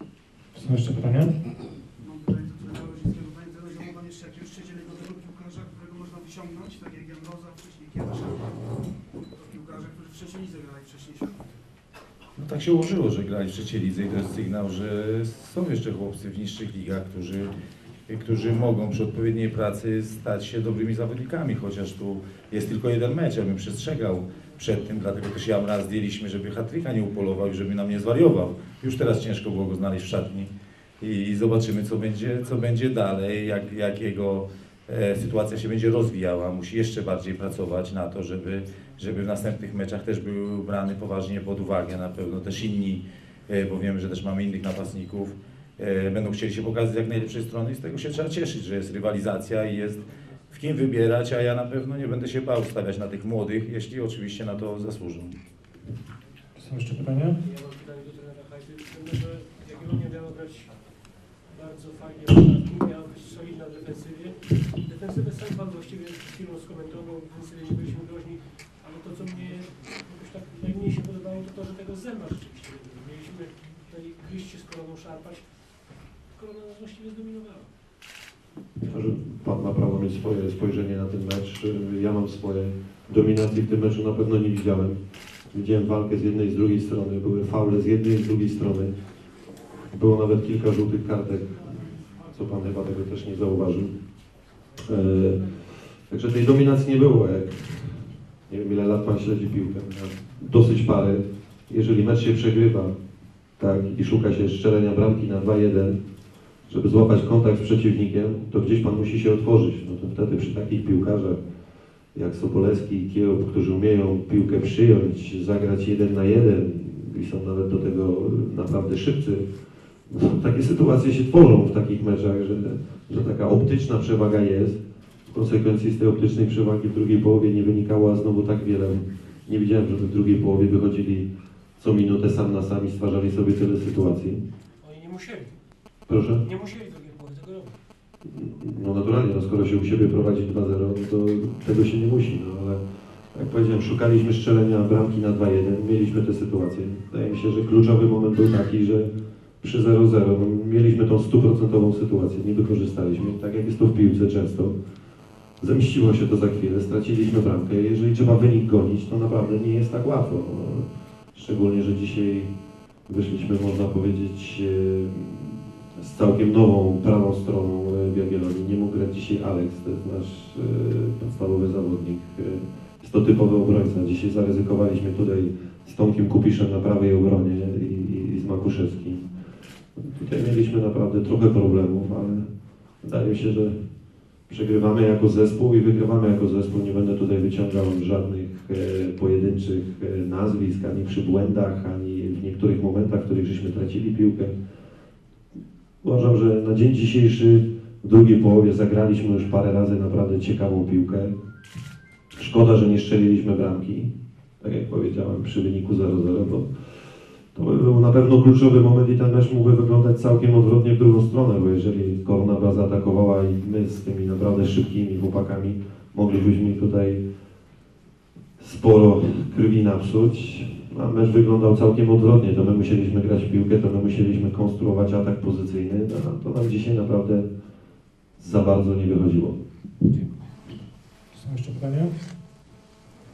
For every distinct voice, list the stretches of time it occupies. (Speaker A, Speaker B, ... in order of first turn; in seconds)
Speaker A: 0.6-1.4, 56.6-57.4, 231.3-232.1
Speaker B: 2.0-8.6, 9.3-11.5
Speaker C: 12.4-17.5, 18.1-55.4
Speaker D: 57.4-77.7, 134.8-135.6, 136.4-137.8, 230.1-230.4
Speaker E: 78.8-85.0, 85.5-88.9, 89.9-93.9, 94.8-102.9, 103.6-106.0, 106.7-111.4, 112.1-119.5, 120.1-134.5, 136.1-136.4, 138.2-142.8, 143.3-154.8, 155.6-162.5, 163.1-179.3, 180.0-182.5, 183.0-183.8, 184.5-194.6, 196.0-201.3, 202.4-206.7, 207.5-217.2, 218.6-227.5, 228.4-229.6